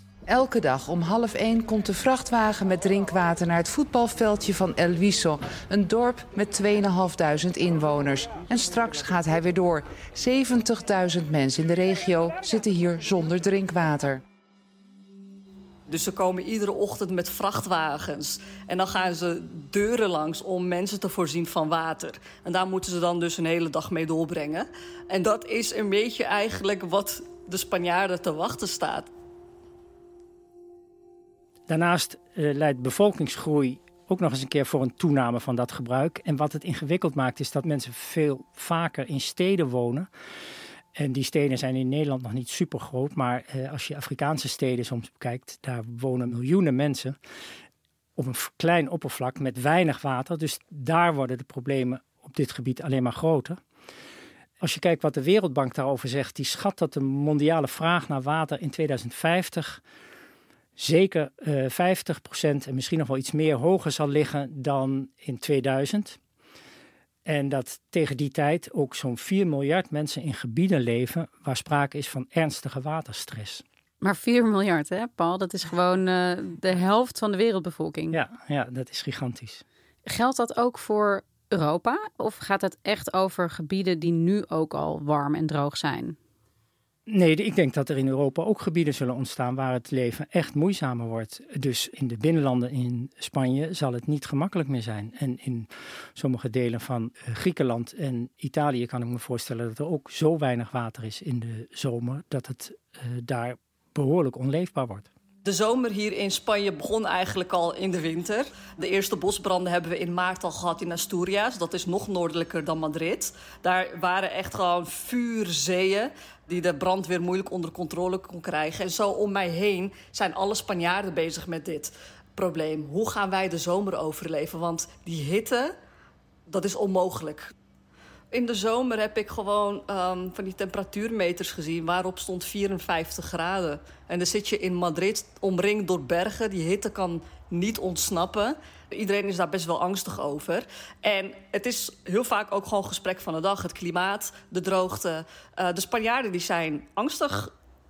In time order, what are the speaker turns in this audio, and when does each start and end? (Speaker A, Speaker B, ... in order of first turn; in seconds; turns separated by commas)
Speaker A: 0.3-14.2, Speaker B: 15.9-29.1, Speaker C: 31.7-40.1, Speaker C: 41.0-47.2, Speaker C: 48.1-53.6, Speaker C: 54.6-59.8, Speaker C: 60.8-66.2, Speaker C: 67.2-73.6, Speaker D: 74.0-78.2, Speaker C: 78.1-79.6, Speaker D: 80.1-86.2, Speaker C: 87.1-105.1, Speaker B: 105.4-125.7, Speaker B: 126.5-127.5, Speaker B: 128.3-147.5